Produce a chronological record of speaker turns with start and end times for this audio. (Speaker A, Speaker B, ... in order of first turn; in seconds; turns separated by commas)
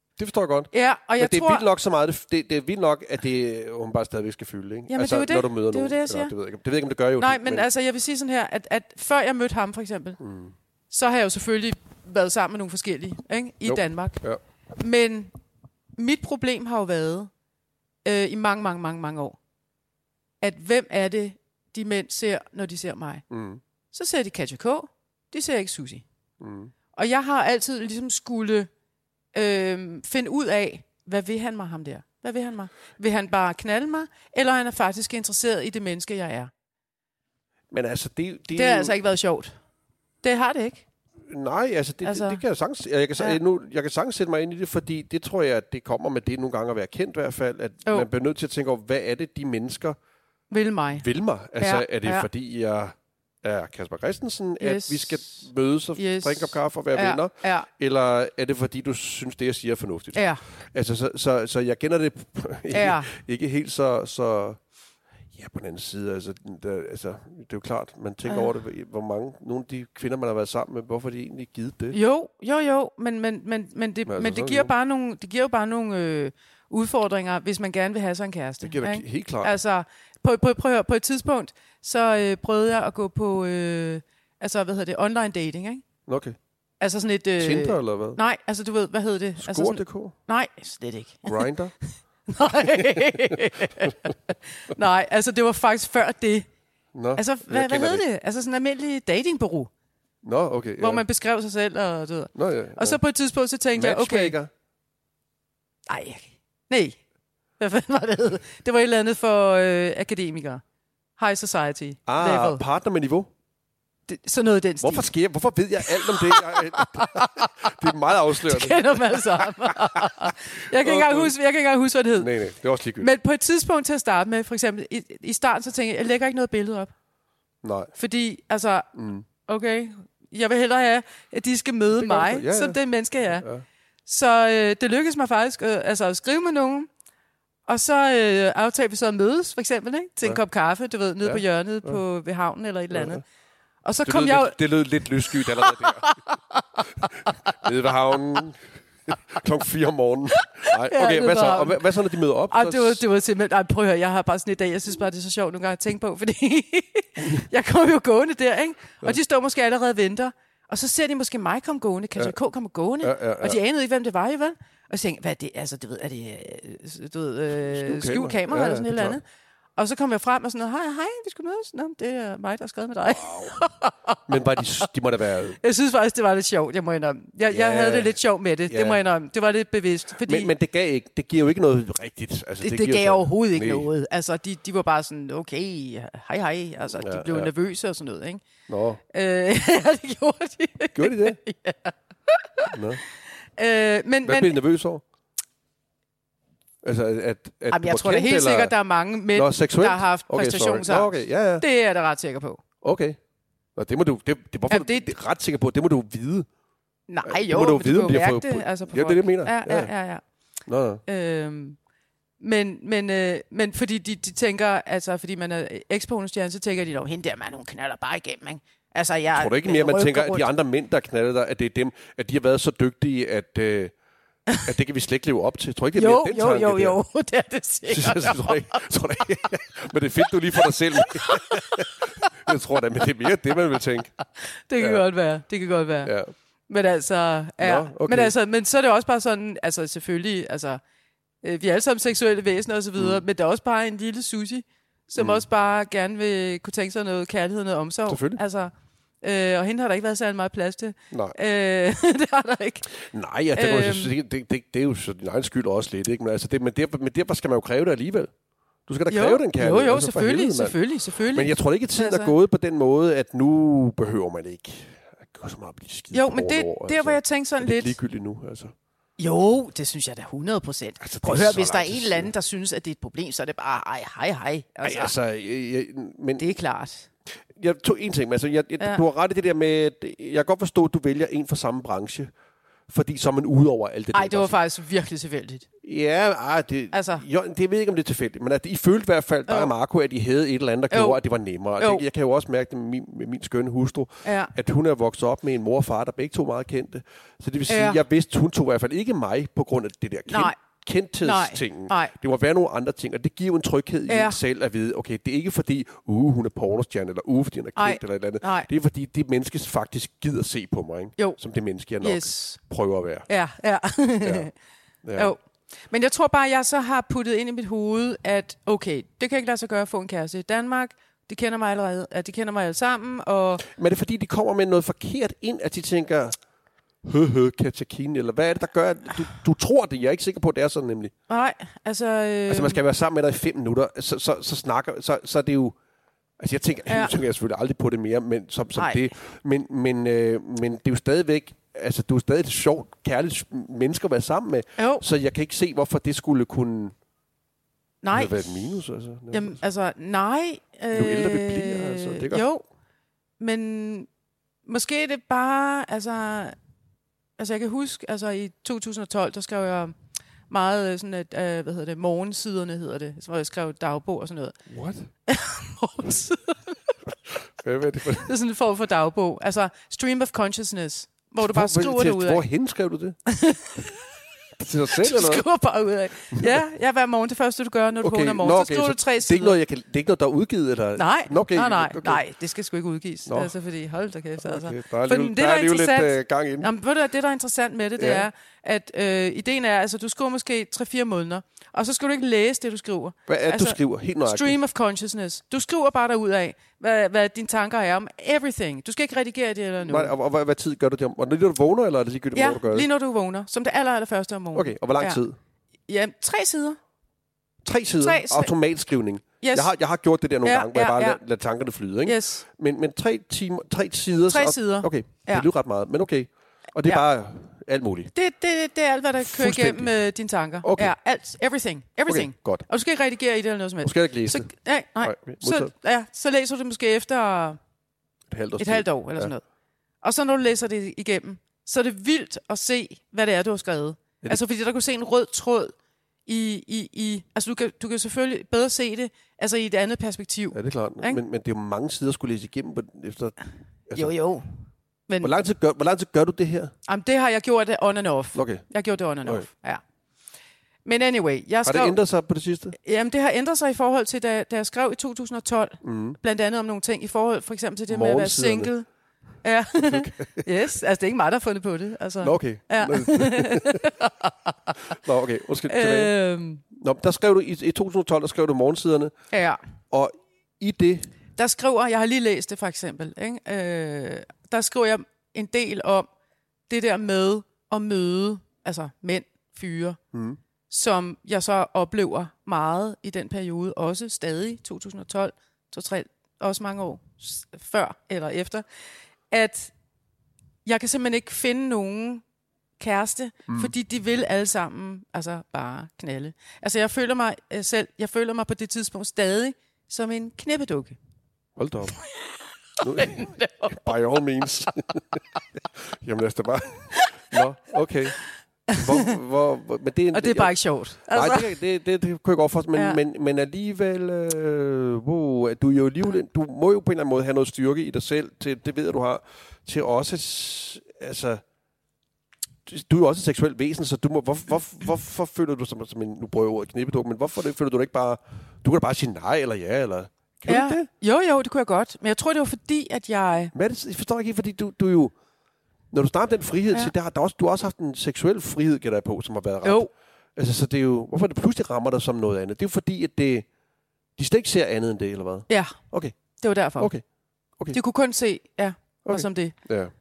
Speaker A: 0.2-7.7, Speaker B: 0.7-1.6, Speaker B: 4.9-6.3, Speaker B: 7.2-10.2, Speaker A: 10.2-10.5, Speaker B: 10.9-14.2, Speaker A: 13.7-14.4, Speaker B: 14.8-15.3, Speaker B: 16.0-17.3, Speaker B: 18.1-19.4, Speaker B: 20.4-23.2, Speaker A: 23.3-23.6, Speaker B: 23.9-26.1, Speaker A: 26.4-26.7, Speaker B: 26.9-28.7, Speaker B: 29.3-36.5, Speaker A: 37.7-39.0, Speaker B: 38.5-39.5, Speaker B: 40.2-40.9, Speaker A: 41.3-50.0, Speaker B: 42.0-42.4, Speaker B: 50.5-51.1, Speaker A: 51.0-64.6, Speaker B: 51.6-52.3, Speaker B: 54.6-55.4, Speaker B: 56.0-57.7, Speaker B: 60.1-60.4, Speaker B: 62.7-63.1, Speaker A: 65.3-72.0, Speaker B: 68.3-68.5, Speaker B: 71.9-85.8, Speaker A: 74.1-74.7, Speaker A: 78.6-79.5, Speaker A: 86.1-86.4, Speaker B: 86.8-91.5, Speaker A: 87.4-88.2, Speaker A: 89.4-90.1, Speaker A: 91.3-91.7, Speaker B: 92.3-96.5, Speaker A: 92.6-93.9, Speaker A: 97.0-98.0, Speaker B: 97.2-99.7, Speaker A: 100.2-101.0, Speaker B: 100.8-104.4, Speaker A: 102.3-103.0, Speaker A: 103.8-104.5, Speaker B: 105.9-107.0, Speaker B: 107.6-110.6, Speaker B: 111.2-112.6, Speaker A: 112.1-113.3, Speaker B: 114.1-115.1, Speaker A: 114.8-121.3, Speaker B: 115.8-117.7, Speaker B: 118.4-122.3, Speaker A: 122.2-123.1, Speaker B: 123.0-126.9, Speaker A: 127.6-127.9, Speaker B: 128.0-128.9, Speaker A: 128.9-129.3, Speaker B: 129.4-133.5, Speaker A: 132.0-132.8, Speaker A: 133.4-133.7, Speaker B: 134.1-136.9, Speaker B: 137.7-143.2, Speaker A: 141.2-142.0, Speaker A: 142.9-143.2, Speaker B: 143.8-144.6, Speaker A: 144.1-146.1, Speaker B: 145.3-147.6, Speaker A: 147.0-153.0, Speaker B: 150.4-151.8, Speaker B: 152.5-169.2, Speaker A: 163.0-163.6, Speaker A: 167.6-169.2, Speaker B: 169.8-174.2, Speaker A: 173.1-173.6, Speaker A: 174.3-175.6, Speaker B: 175.6-180.5, Speaker A: 177.5-178.2, Speaker A: 178.7-179.0, Speaker A: 180.2-183.9, Speaker B: 182.6-188.4, Speaker A: 187.0-187.5, Speaker A: 188.7-189.0, Speaker B: 189.1-192.8, Speaker A: 191.0-191.4, Speaker A: 192.7-193.0, Speaker B: 193.6-194.6, Speaker A: 194.2-195.0, Speaker A: 196.8-198.8, Speaker B: 197.7-202.6, Speaker A: 199.3-201.6, Speaker A: 202.8-203.2, Speaker A: 203.8-206.5, Speaker B: 204.7-205.1, Speaker B: 207.1-210.2, Speaker A: 207.2-209.9, Speaker A: 210.7-211.0, Speaker B: 211.1-211.8, Speaker B: 212.4-220.5, Speaker A: 219.3-223.9, Speaker A: 224.6-227.0, Speaker B: 225.9-228.9, Speaker A: 227.9-234.1, Speaker B: 230.6-232.3, Speaker B: 234.4-236.1, Speaker A: 234.8-235.1, Speaker A: 236.0-236.3, Speaker B: 236.7-240.8, Speaker A: 237.6-238.3, Speaker B: 241.4-252.9, Speaker A: 243.0-243.2, Speaker A: 245.2-245.4, Speaker A: 248.1-248.4, Speaker A: 251.1-251.4, Speaker A: 253.0-258.3, Speaker B: 253.6-254.1, Speaker A: 258.9-260.8, Speaker B: 259.1-262.3, Speaker A: 261.3-268.7, Speaker B: 266.1-268.0, Speaker B: 269.2-275.1, Speaker A: 271.0-272.3, Speaker A: 274.8-276.5, Speaker B: 276.4-277.1, Speaker A: 277.5-282.3, Speaker A: 282.9-284.5, Speaker B: 284.1-285.7, Speaker A: 285.8-313.3, Speaker B: 286.9-287.2, Speaker B: 290.9-291.2, Speaker B: 291.8-292.0, Speaker B: 294.2-294.5, Speaker B: 297.7-298.0, Speaker B: 300.3-300.6, Speaker B: 301.2-302.1, Speaker B: 304.1-304.4, Speaker B: 307.8-308.7, Speaker B: 312.0-312.6, Speaker B: 313.3-314.5, Speaker A: 314.2-314.5, Speaker A: 315.0-315.3, Speaker B: 315.2-323.6, Speaker A: 323.6-326.4, Speaker A: 327.0-331.1, Speaker B: 331.3-332.8, Speaker A: 332.5-335.8, Speaker A: 336.4-346.9, Speaker B: 336.9-337.1, Speaker B: 338.8-339.0, Speaker B: 344.8-345.0, Speaker B: 348.0-348.5, Speaker A: 348.1-349.6, Speaker B: 349.3-352.6, Speaker A: 350.9-352.4, Speaker B: 353.4-354.1, Speaker B: 354.7-356.6, Speaker B: 357.4-359.9, Speaker B: 360.5-364.6, Speaker A: 364.7-365.1, Speaker B: 365.3-366.9, Speaker A: 367.3-368.3, Speaker B: 368.1-372.4, Speaker A: 371.4-373.2, Speaker B: 373.3-374.0, Speaker A: 374.6-375.4, Speaker B: 374.9-379.6, Speaker A: 376.3-376.6, Speaker A: 378.0-382.2, Speaker B: 380.9-400.1, Speaker A: 383.3-383.5, Speaker A: 384.4-386.7, Speaker A: 388.0-388.3, Speaker A: 393.3-394.6, Speaker A: 399.9-402.9, Speaker B: 402.3-405.2, Speaker A: 404.5-405.4, Speaker B: 405.9-406.8, Speaker A: 407.6-418.1, Speaker B: 408.0-408.5, Speaker B: 409.4-409.7, Speaker B: 410.4-411.2, Speaker B: 412.1-412.4, Speaker B: 414.3-415.5, Speaker B: 418.1-427.6, Speaker A: 419.2-419.9, Speaker A: 420.6-420.9, Speaker A: 422.1-422.6, Speaker A: 423.8-424.5, Speaker A: 425.0-425.7, Speaker A: 428.3-429.3, Speaker B: 428.6-429.4, Speaker B: 430.0-435.7, Speaker B: 436.3-441.2, Speaker A: 440.5-443.4, Speaker B: 443.9-444.5, Speaker B: 445.1-445.3, Speaker A: 445.2-446.7, Speaker B: 446.9-449.8, Speaker A: 448.4-448.6, Speaker B: 450.9-452.0, Speaker A: 451.6-452.8, Speaker B: 452.8-458.9, Speaker A: 455.8-456.2, Speaker A: 457.9-458.7, Speaker B: 459.4-464.8, Speaker A: 459.8-460.5, Speaker A: 462.2-463.9, Speaker A: 464.9-466.1, Speaker B: 465.7-466.6, Speaker A: 466.7-469.1, Speaker B: 469.3-469.6, Speaker A: 469.9-471.1, Speaker B: 471.4-476.1, Speaker B: 476.7-480.0, Speaker A: 480.1-480.4, Speaker B: 480.7-488.6, Speaker B: 489.3-489.7, Speaker B: 490.6-492.2, Speaker B: 492.8-501.0, Speaker A: 493.5-493.7, Speaker A: 501.6-502.0, Speaker A: 502.8-505.2, Speaker B: 502.8-503.9, Speaker A: 505.8-508.2, Speaker B: 508.7-509.1, Speaker A: 508.7-510.5, Speaker B: 510.1-511.6, Speaker A: 511.1-521.4, Speaker B: 512.7-513.0, Speaker A: 522.7-530.9, Speaker B: 530.5-533.5, Speaker A: 533.5-535.1, Speaker A: 535.9-543.5, Speaker B: 539.6-539.9, Speaker A: 544.2-546.2, Speaker B: 545.5-545.8, Speaker B: 546.4-546.9, Speaker B: 547.7-549.5, Speaker A: 549.0-549.9